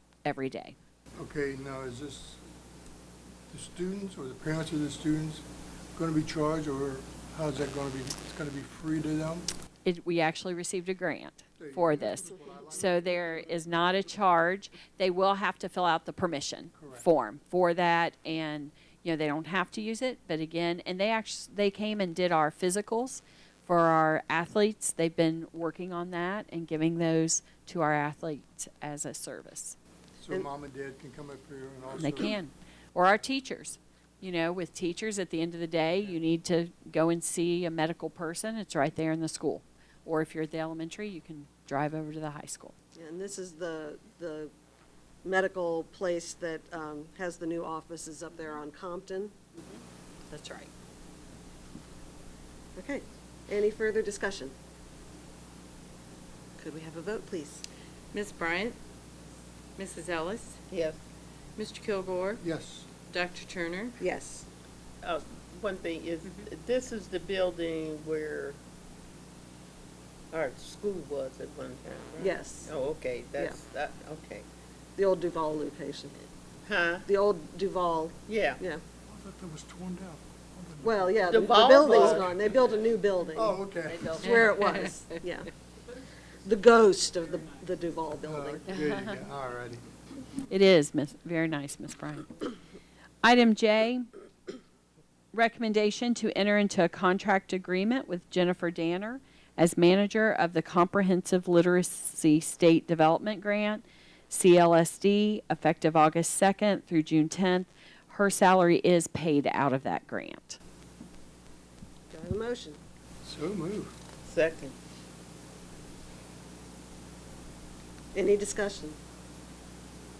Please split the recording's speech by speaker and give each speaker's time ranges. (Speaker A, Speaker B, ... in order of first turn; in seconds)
Speaker A: 0.2-0.8, 9.8-29.8, 32.0-42.7, 49.7-50.7, 88.7-89.2, 90.5-92.3, 93.2-94.1, 95.3-110.6
Speaker B: 1.2-2.4, 3.5-9.5, 11.6-13.8, 16.8-17.1, 30.2-32.4, 62.4-62.9, 79.1-80.8, 83.4-84.3, 88.2-89.8, 113.2-114.0
Speaker C: 43.0-44.5, 45.2-49.3, 52.8-54.5, 56.6-57.6, 64.0-64.5, 72.2-72.7, 75.0-76.2, 77.1-78.8, 80.8-83.6, 84.3-85.5, 86.5-88.7, 112.1-112.8, 118.1-119.0
Speaker D: 58.1-58.8, 59.8-60.6, 61.6-62.4, 63.1-64.0, 84.2-85.2
Speaker E: 60.7-61.0, 65.0-68.6, 70.3-74.5, 76.7-77.1, 78.3-78.6, 81.2-82.4, 83.9-84.4, 114.2-114.8